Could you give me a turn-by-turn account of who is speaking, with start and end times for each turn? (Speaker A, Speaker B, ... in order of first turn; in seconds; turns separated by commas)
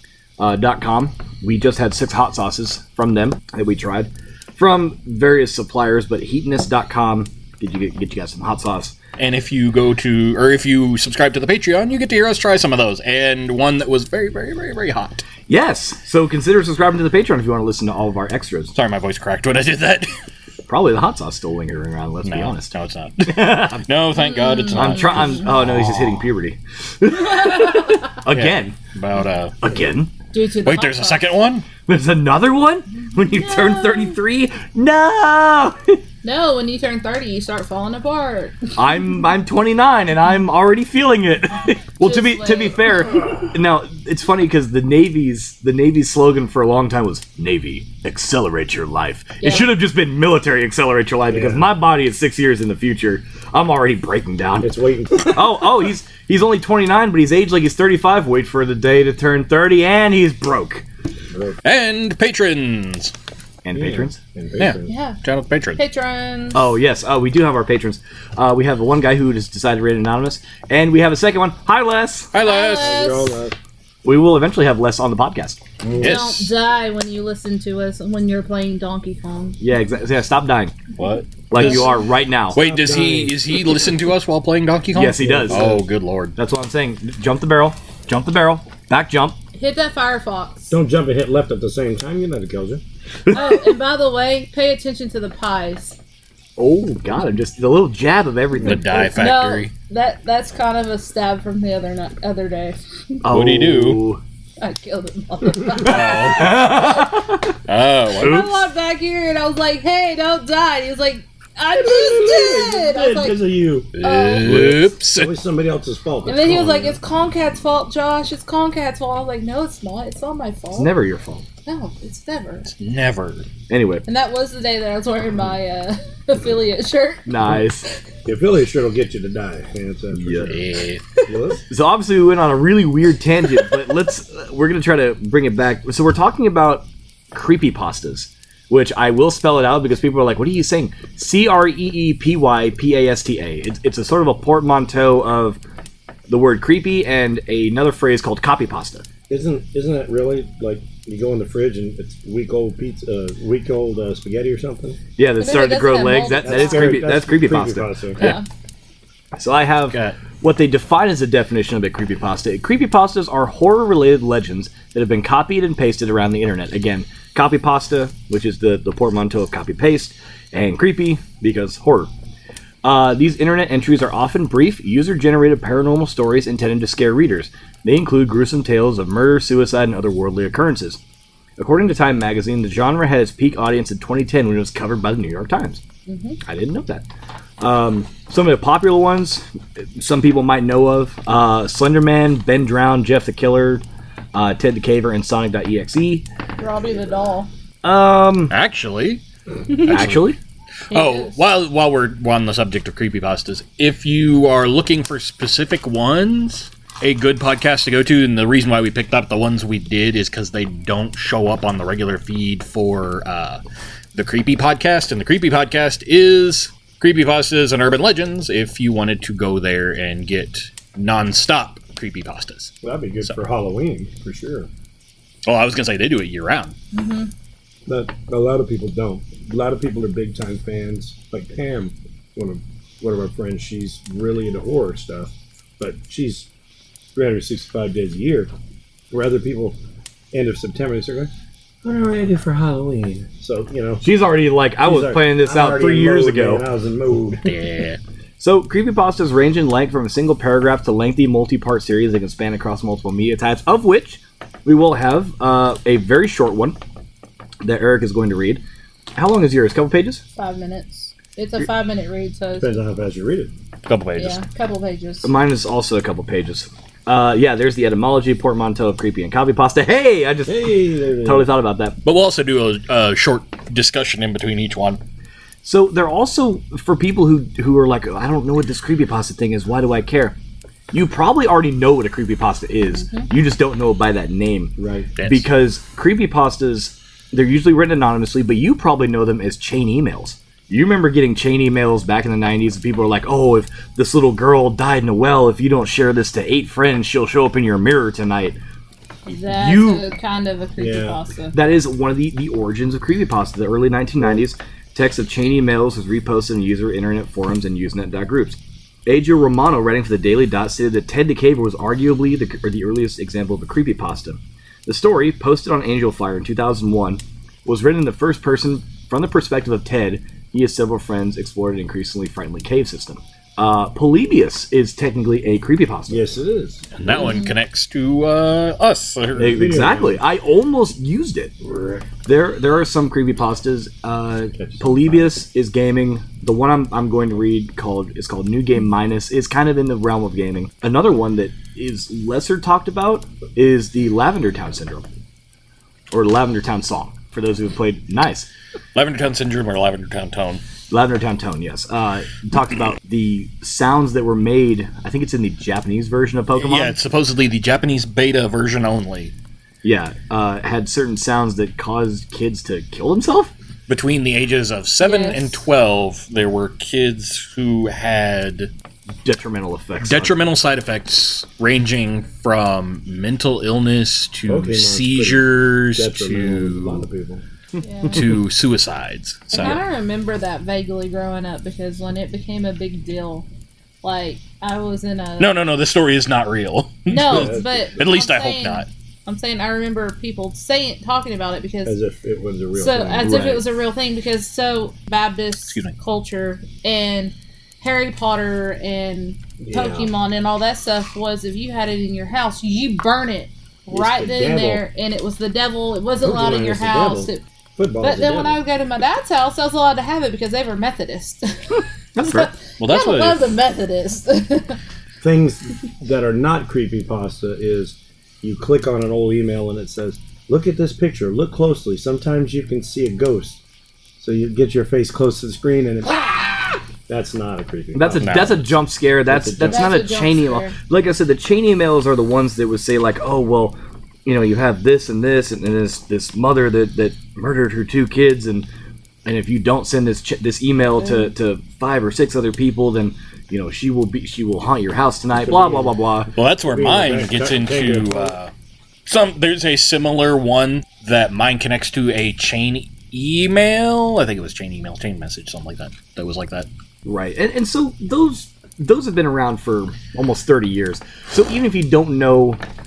Speaker A: 0.4-8.9, Speaker B: 9.2-15.3, Speaker A: 15.5-18.7, Speaker B: 18.7-20.2, Speaker A: 20.7-22.7, Speaker B: 22.2-26.3, Speaker A: 23.3-23.9, Speaker C: 24.1-25.4, Speaker A: 24.7-28.8, Speaker C: 27.3-28.1, Speaker B: 28.3-29.6, Speaker A: 29.6-30.1, Speaker C: 30.3-31.4, Speaker B: 30.6-31.7, Speaker A: 31.8-36.0, Speaker C: 33.1-34.2, Speaker C: 36.2-38.7, Speaker A: 38.8-60.9, Speaker C: 42.0-43.1, Speaker C: 49.4-49.7, Speaker D: 51.3-51.7, Speaker D: 54.6-55.8, Speaker D: 61.3-61.6, Speaker B: 61.6-63.1, Speaker A: 63.6-64.2, Speaker D: 63.7-64.9, Speaker B: 64.6-65.8, Speaker C: 64.8-65.2, Speaker C: 65.8-66.7, Speaker A: 66.5-72.3, Speaker B: 72.3-73.0, Speaker C: 72.4-73.4, Speaker D: 72.8-73.5, Speaker A: 74.0-75.6, Speaker D: 75.8-76.2, Speaker B: 75.9-76.5, Speaker C: 76.0-79.6, Speaker A: 79.6-80.8, Speaker B: 81.0-82.0, Speaker C: 81.1-82.0, Speaker A: 81.5-82.6, Speaker B: 82.5-86.3, Speaker D: 82.5-83.4, Speaker A: 84.9-85.8, Speaker D: 85.2-85.8, Speaker A: 86.3-89.4, Speaker C: 89.5-90.7, Speaker D: 90.7-92.8, Speaker A: 93.2-93.7, Speaker C: 93.3-96.0, Speaker A: 96.6-99.1, Speaker B: 98.6-99.7, Speaker C: 98.9-103.2, Speaker A: 103.2-104.2, Speaker B: 103.2-104.0, Speaker C: 104.6-106.5, Speaker B: 105.8-107.1, Speaker A: 105.8-107.6, Speaker B: 107.6-108.6, Speaker C: 108.2-114.5, Speaker D: 111.8-113.9, Speaker B: 113.9-115.3, Speaker A: 114.4-114.9, Speaker D: 115.1-117.0, Speaker C: 116.2-120.9, Speaker A: 120.7-121.4, Speaker C: 121.7-122.7, Speaker B: 122.7-123.5, Speaker A: 123.7-124.0, Speaker C: 124.0-128.0, Speaker A: 127.2-127.8, Speaker D: 128.2-130.6, Speaker A: 130.1-130.6, Speaker B: 130.5-131.0, Speaker D: 131.3-131.6, Speaker A: 131.7-145.6, Speaker A: 146.3-149.1, Speaker D: 149.3-155.0, Speaker A: 155.2-158.3, Speaker C: 155.4-157.0, Speaker D: 156.4-158.2, Speaker C: 158.2-158.4, Speaker A: 159.3-172.1, Speaker B: 159.9-160.2, Speaker A: 172.8-181.0, Speaker A: 181.6-185.8, Speaker C: 186.1-186.4, Speaker A: 186.4-187.1, Speaker A: 187.6-196.2, Speaker C: 196.6-197.5, Speaker A: 197.8-198.5, Speaker B: 198.5-199.2, Speaker C: 199.7-200.1, Speaker B: 199.8-200.3, Speaker A: 199.9-200.4, Speaker C: 200.9-201.4, Speaker B: 200.9-213.6, Speaker B: 214.1-223.3, Speaker D: 222.8-224.7, Speaker B: 225.4-226.7, Speaker C: 226.9-227.3, Speaker D: 227.9-236.5, Speaker D: 237.1-238.5, Speaker D: 239.1-239.8, Speaker D: 240.3-241.3, Speaker D: 241.8-244.0, Speaker A: 244.0-246.6, Speaker D: 244.8-247.4, Speaker B: 247.4-248.0, Speaker A: 248.4-256.8, Speaker A: 257.6-258.6, Speaker A: 259.1-260.2, Speaker C: 260.3-262.7, Speaker D: 262.6-263.5, Speaker B: 263.8-264.4, Speaker C: 264.2-265.3, Speaker A: 265.2-272.0, Speaker D: 270.4-271.5, Speaker B: 272.0-275.0, Speaker A: 275.6-280.4, Speaker A: 280.9-298.6, Speaker C: 282.9-283.3, Speaker D: 284.8-285.1, Speaker B: 285.2-285.5, Speaker C: 299.2-301.6, Speaker A: 299.4-300.0, Speaker D: 300.8-301.2, Speaker A: 301.5-326.2, Speaker D: 326.1-327.3, Speaker B: 326.9-329.6, Speaker C: 327.1-327.5, Speaker D: 329.3-330.2, Speaker A: 329.4-331.5, Speaker D: 331.6-332.1, Speaker A: 332.2-345.1, Speaker D: 334.5-335.3, Speaker A: 346.1-348.5, Speaker B: 348.9-350.6, Speaker A: 350.9-357.0, Speaker B: 356.6-359.3, Speaker A: 359.8-363.5, Speaker B: 363.9-368.7, Speaker C: 365.0-365.6, Speaker A: 369.2-370.4, Speaker B: 370.0-377.1, Speaker D: 374.5-377.4, Speaker C: 377.8-378.3, Speaker B: 378.1-379.8, Speaker C: 379.5-383.5, Speaker C: 384.0-385.5, Speaker B: 385.4-388.9, Speaker C: 387.1-392.0, Speaker D: 387.2-387.9, Speaker D: 391.8-393.4, Speaker C: 392.7-407.4, Speaker A: 393.2-393.6, Speaker B: 395.7-395.9, Speaker D: 399.6-400.1, Speaker D: 403.9-404.8, Speaker D: 406.2-408.6, Speaker C: 408.0-414.8, Speaker A: 412.1-412.5, Speaker B: 412.2-413.5, Speaker D: 415.2-423.6, Speaker D: 424.2-426.5, Speaker D: 427.1-428.5, Speaker A: 427.9-438.7, Speaker B: 428.2-428.6, Speaker D: 429.2-430.1, Speaker C: 429.6-430.8, Speaker A: 439.2-446.3, Speaker D: 445.3-445.9, Speaker B: 446.3-448.5, Speaker D: 446.6-448.4, Speaker B: 449.1-456.7, Speaker A: 457.0-462.6